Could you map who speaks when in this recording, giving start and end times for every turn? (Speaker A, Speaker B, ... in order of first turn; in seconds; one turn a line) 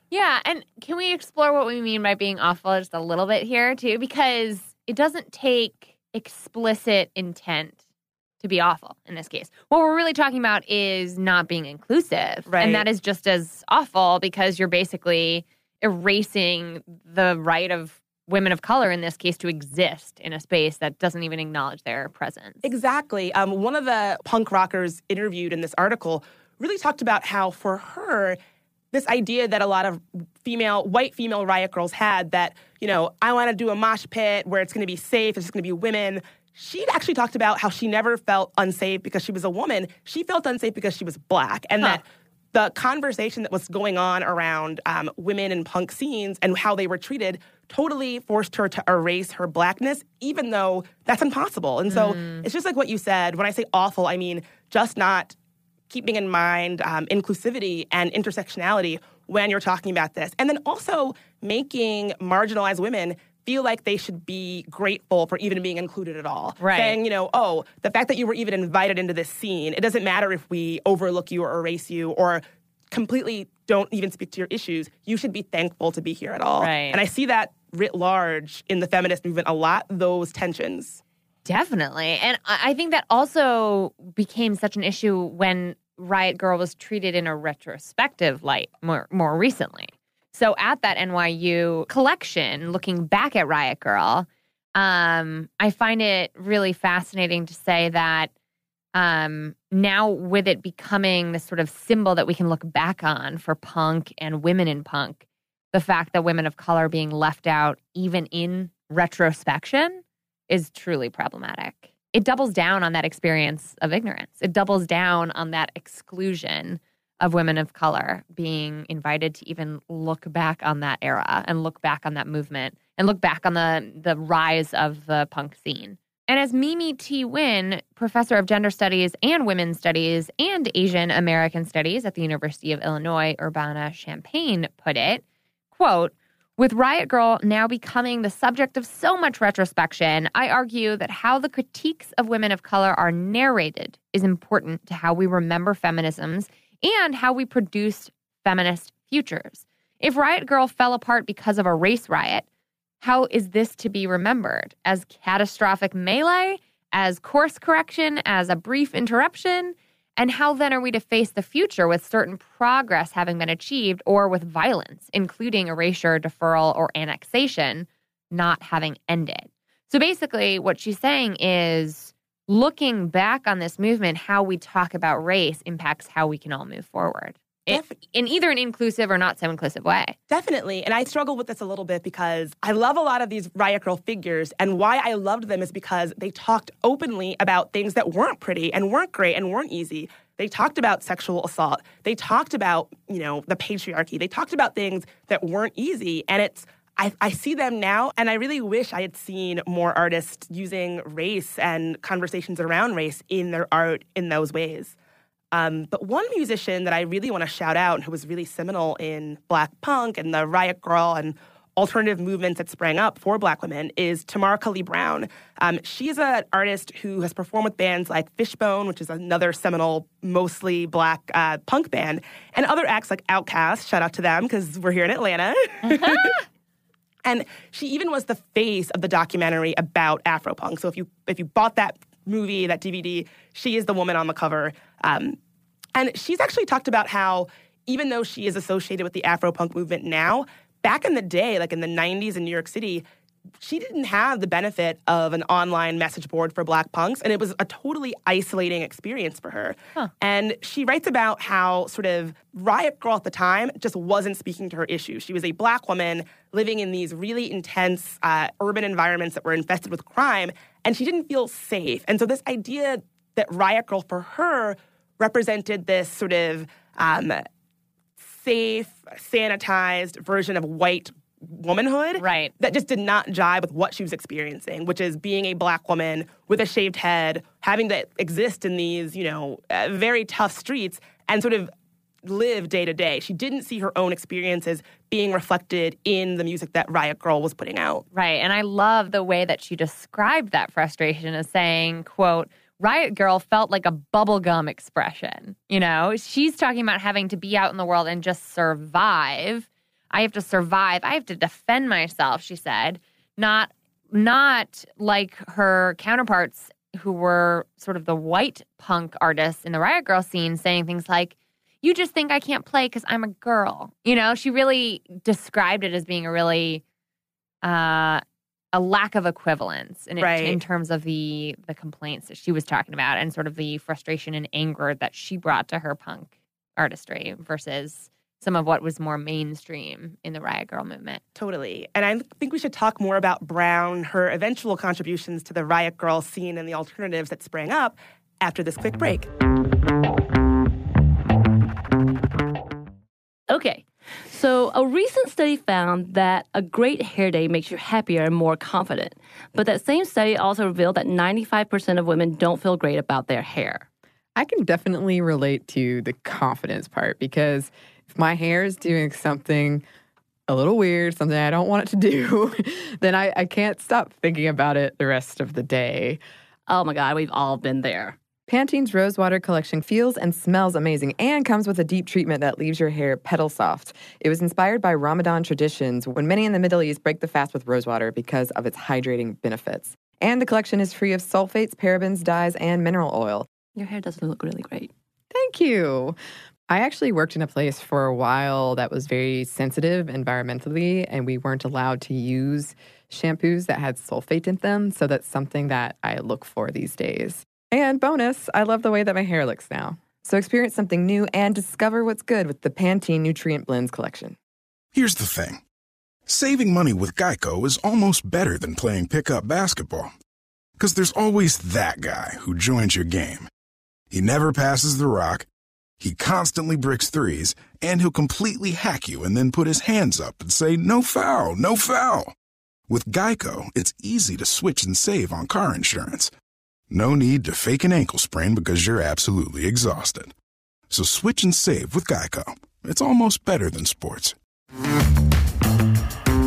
Speaker A: 0.1-7.8
Speaker A: 8.4-22.6
Speaker B: 12.5-12.9
Speaker B: 22.6-28.4
Speaker B: 28.9-55.3
Speaker A: 51.9-52.4
Speaker B: 55.9-81.0
Speaker A: 66.6-67.0
Speaker A: 76.6-77.0
Speaker A: 81.4-98.3
Speaker A: 98.9-105.2
Speaker A: 105.7-152.4
Speaker A: 153.0-180.1
Speaker B: 180.3-204.9
Speaker B: 205.5-226.4
Speaker A: 225.9-226.3
Speaker B: 227.2-235.4
Speaker B: 235.9-243.0
Speaker B: 243.6-267.4
Speaker B: 268.2-281.7
Speaker A: 272.1-272.5
Speaker B: 282.2-288.0
Speaker A: 288.1-316.8
Speaker A: 317.6-318.2
Speaker A: 318.7-331.2
Speaker B: 320.2-320.6
Speaker B: 331.4-339.3
Speaker C: 343.5-353.9
Speaker D: 354.3-359.8
Speaker D: 360.5-366.2
Speaker C: 366.7-368.1
Speaker D: 368.5-383.5
Speaker C: 383.7-384.9
Speaker D: 385.3-386.1
Speaker D: 386.7-404.4
Speaker E: 404.9-405.6
Speaker E: 406.3-410.1
Speaker E: 410.8-413.5
Speaker E: 414.1-415.5
Speaker E: 416.0-422.3
Speaker E: 422.9-426.3
Speaker E: 426.9-430.3
Speaker E: 430.9-434.4